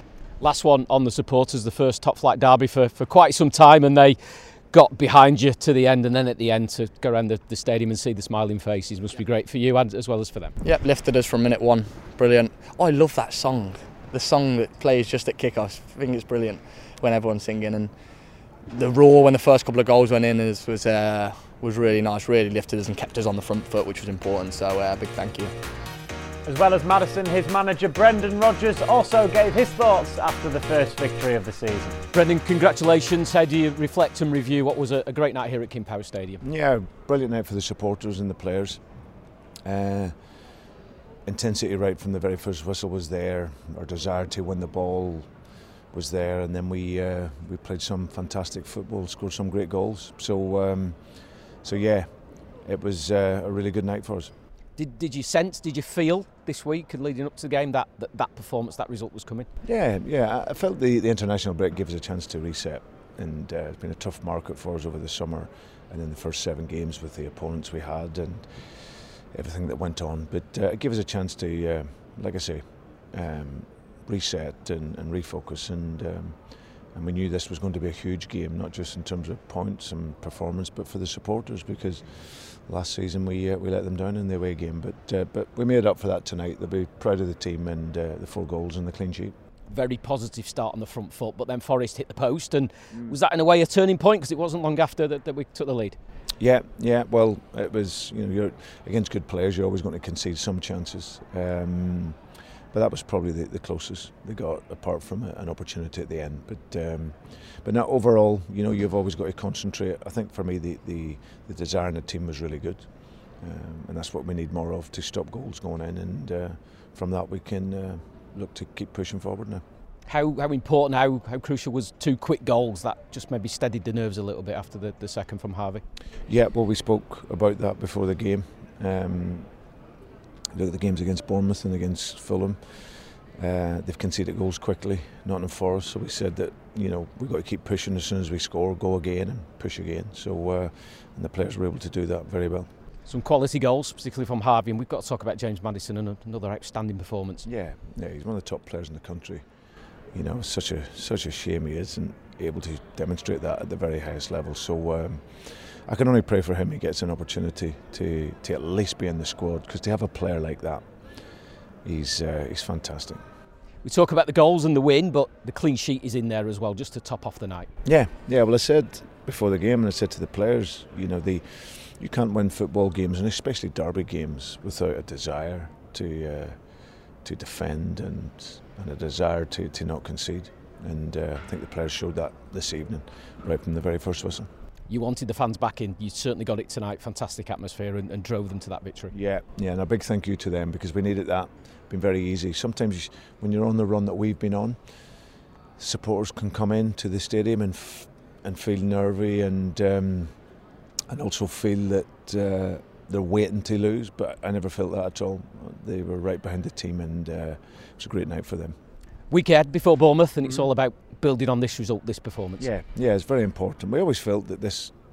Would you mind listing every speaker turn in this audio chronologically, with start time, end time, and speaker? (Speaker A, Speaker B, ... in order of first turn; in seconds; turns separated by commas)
Speaker A: 0.4-10.5, Speaker B: 10.6-17.9, Speaker B: 18.7-25.5, Speaker C: 26.4-32.0, Speaker A: 32.1-36.4, Speaker D: 36.4-38.8, Speaker D: 39.6-40.5, Speaker D: 41.2-45.4, Speaker D: 45.9-54.3, Speaker A: 54.8-59.5, Speaker D: 59.6-89.3, Speaker A: 89.7-96.0, Speaker D: 92.9-93.2, Speaker D: 96.4-119.6, Speaker A: 120.1-125.8, Speaker D: 126.3-129.5, Speaker D: 130.5-142.7, Speaker A: 143.1-147.4, Speaker D: 147.4-149.4, Speaker D: 150.1-160.8, Speaker D: 161.8-163.2, Speaker A: 163.8-167.7, Speaker D: 167.8-184.5, Speaker A: 184.9-189.1, Speaker D: 189.1-195.0, Speaker D: 195.8-200.3, Speaker D: 201.1-208.7, Speaker A: 209.3-212.7, Speaker D: 210.4-210.7, Speaker D: 212.6-214.9